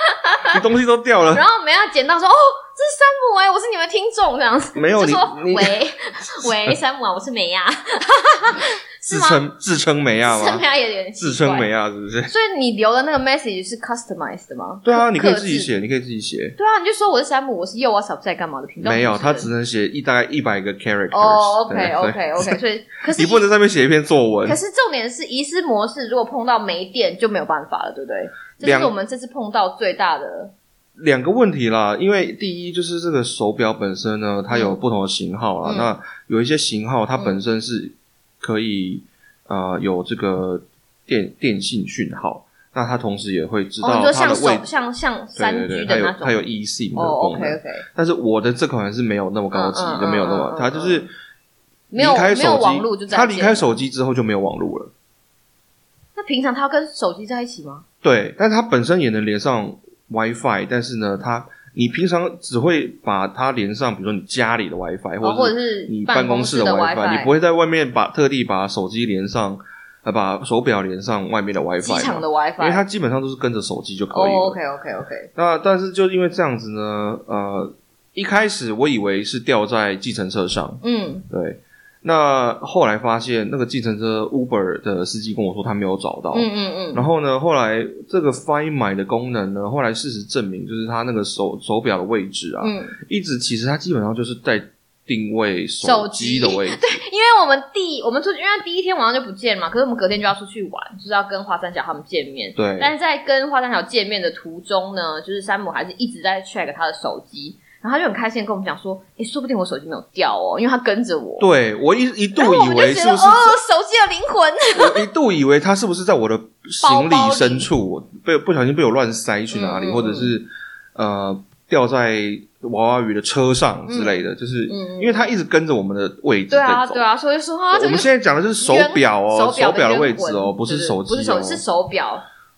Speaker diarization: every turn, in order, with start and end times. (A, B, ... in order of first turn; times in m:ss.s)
0:00.2-0:00.6 A
0:00.5-0:01.5 B
0:01.3-0:09.4 A
0:04.8-0:05.8 B
0:09.1-0:10.6 B
0:10.2-0:11.7 A
0:11.2-0:12.3 B
0:12.3-0:15.7 A
0:14.8-0:16.6 B
0:16.6-0:19.5 A
0:18.8-0:24.6 B
0:21.1-0:23.4 A
0:24.4-0:30.5 A
0:28.6-0:28.9 B
0:31.0-0:44.7 B
0:34.5-0:34.8 A
0:35.6-0:35.9 A
0:43.8-0:46.4 A
0:45.4-0:51.1 B
0:47.0-0:47.8 A
0:49.5-0:51.1 A
0:51.9-0:53.8 A
0:52.0-0:54.9 B
0:56.2-0:57.8 A
0:58.0-1:14.6 B
1:05.2-1:07.3 A
1:11.8-1:12.9 A
1:14.1-1:15.3 A
1:15.4-1:37.0 B
1:20.8-1:21.3 A
1:26.3-1:27.1 A
1:32.6-1:33.0 A
1:35.8-1:51.5 A
1:42.6-1:42.9 B
1:51.4-1:53.6 B
1:52.4-1:55.1 A
1:54.7-2:07.0 B
1:56.8-1:57.7 A
1:59.5-2:00.4 A
2:03.9-2:05.3 A
2:06.5-2:12.2 A
2:07.7-2:11.6 B